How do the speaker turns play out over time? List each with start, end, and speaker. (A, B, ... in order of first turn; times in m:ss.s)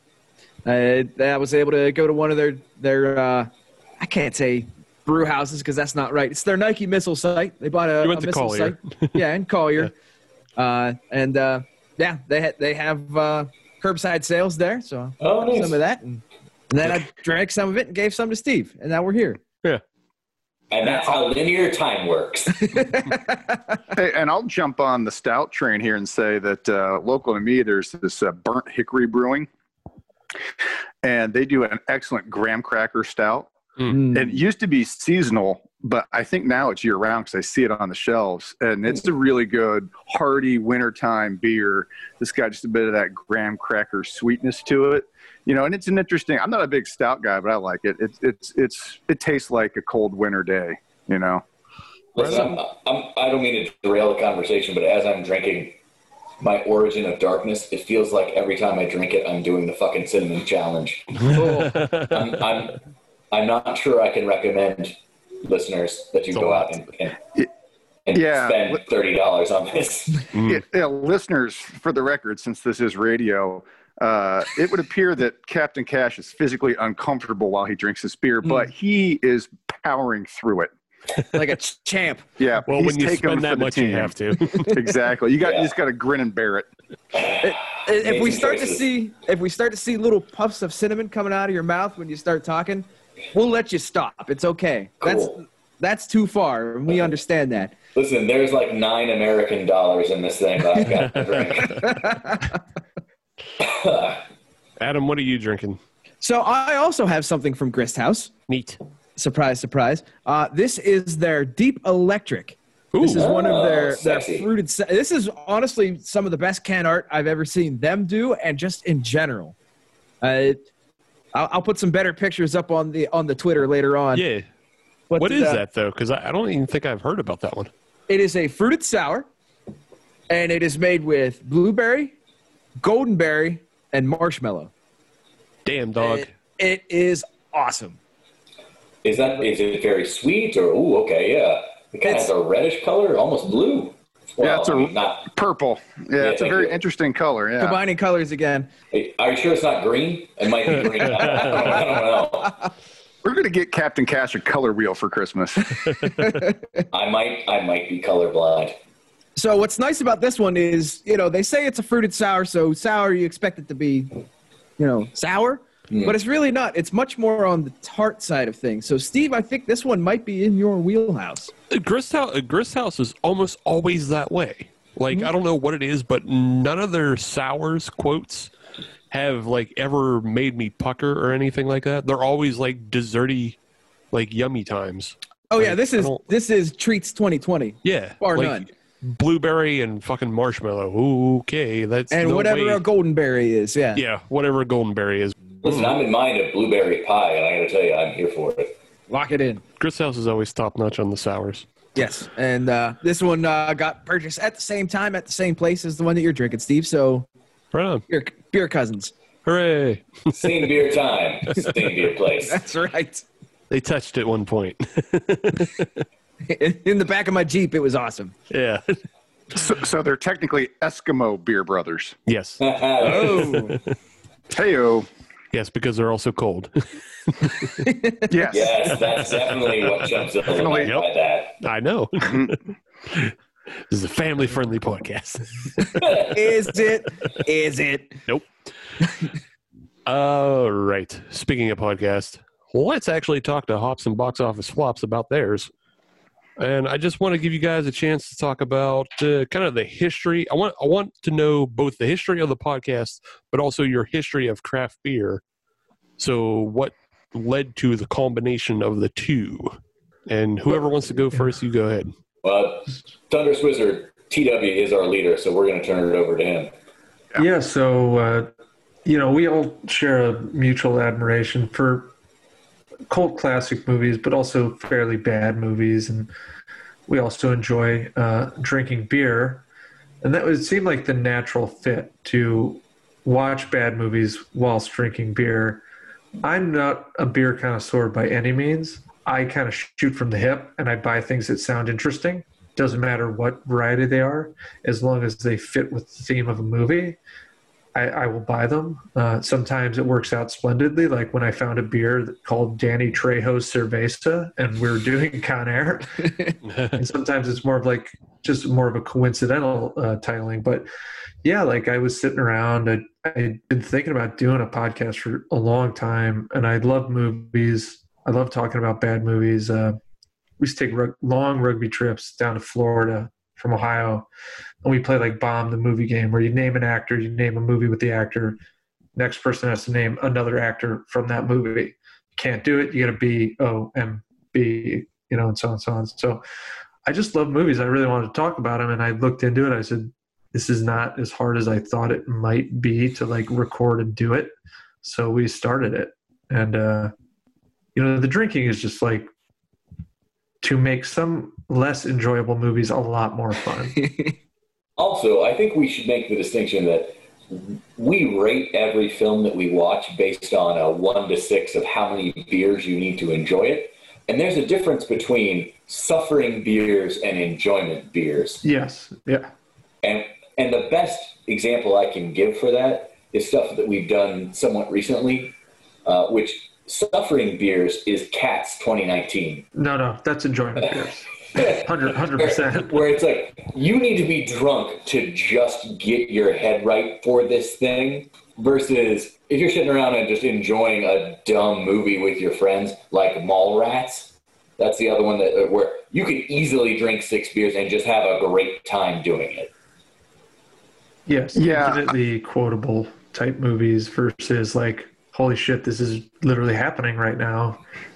0:00.6-0:09.9 A
0:08.0-0:09.2 B
0:10.6-0:19.4 A
0:15.2-0:15.8 C
0:20.7-0:22.9 C
0:22.7-0:23.6 A
0:23.9-0:29.5 D
0:31.0-0:51.4 D
0:33.9-0:34.4 A
0:52.2-0:55.8 C
0:52.2-0:52.5 B
0:56.4-1:02.8 C
1:01.3-1:02.2 B
1:01.3-1:01.7 A
1:03.3-1:07.2 C
1:06.3-1:06.7 B
1:08.1-1:10.3 C
1:08.1-1:08.8 D
1:10.3-1:10.6 B
1:10.4-1:20.7 D
1:21.3-1:22.3 A
1:22.4-1:26.7 D
1:22.7-1:24.9 B
1:25.4-1:25.7 C
1:27.2-1:28.9 C
1:27.3-1:37.8 A
1:35.0-1:35.4 C
1:38.0-1:42.1 C
1:41.7-1:42.5 A
1:43.6-1:44.2 C
1:44.8-1:45.8 B
1:46.2-1:48.4 A
1:48.5-1:48.8 B
1:49.2-1:59.6 A
1:52.9-1:53.3 B
1:53.2-1:54.5 C
2:00.2-2:00.6 A
2:01.3-2:04.2 A
2:04.1-2:04.5 B
2:05.1-2:05.6 A
2:05.2-2:07.7 B
2:08.1-2:09.3 A
2:10.3-2:12.2 A
2:12.8-2:14.7 A
2:15.6-2:16.3 B
2:16.0-2:18.0 A
2:19.0-2:25.3 C
2:22.0-2:22.3 A
2:24.4-2:27.8 D
2:26.2-2:26.8 C
2:27.6-2:28.7 A
2:28.9-2:32.6 C
2:31.1-2:31.9 A
2:33.2-2:35.9 D
2:36.1-2:36.6 A
2:36.9-2:38.8 C
2:39.4-2:44.3 A
2:44.8-2:51.5 A
2:45.9-2:46.2 C
2:51.7-2:58.5 B
2:59.1-3:03.6 B
3:04.1-3:06.2 B
3:05.5-3:08.7 A
3:07.8-3:12.8 B
3:12.1-3:14.0 A
3:13.9-3:15.9 B
3:15.6-3:18.7 C
3:19.1-3:19.6 A
3:19.8-3:21.7 B
3:22.0-3:27.3 A
3:27.7-3:28.0 B
3:28.1-3:29.1 A
3:29.4-3:30.5 B
3:30.3-3:32.6 C
3:32.4-3:33.2 A
3:33.7-3:36.0 B
3:36.5-3:38.4 A
3:38.5-3:39.0 B
3:39.5-3:42.2 D
3:42.3-3:43.9 B
3:42.6-3:43.6 C
3:43.0-3:43.8 A
3:44.5-3:45.1 D
3:45.5-3:47.8 B
3:47.8-3:48.3 A
3:48.3-3:49.0 D
3:48.5-3:51.6 C
3:48.9-3:53.3 B
3:50.5-3:50.9 D
3:52.3-3:52.6 D
3:53.9-3:56.2 B
3:56.0-3:58.2 A
4:00.1-4:05.7 B
4:06.6-4:15.4 B
4:16.2-4:22.1 B
4:22.4-4:26.7 C
4:27.4-4:28.5 E
4:29.1-4:32.1 E
4:33.1-4:36.3 E
4:37.1-4:39.7 E
4:40.2-4:45.8 E
4:46.4-4:57.2 E
4:58.0-5:06.3 E
5:06.9-5:10.9 E
5:11.4-5:20.0 E
5:20.6-5:24.3 E
5:24.8-5:28.6 E
5:29.2-5:36.4 E
5:37.0-5:47.1 E
5:48.0-5:49.3 E
5:50.6-5:54.0 E
5:54.0-5:54.3 A
5:55.0-6:08.6 C
6:08.6-6:09.5 E
6:10.0-6:15.5 C
6:16.1-6:19.7 C
6:19.8-6:23.0 E
6:21.6-6:39.7 C
6:41.3-6:47.8 E
6:41.6-6:42.1 D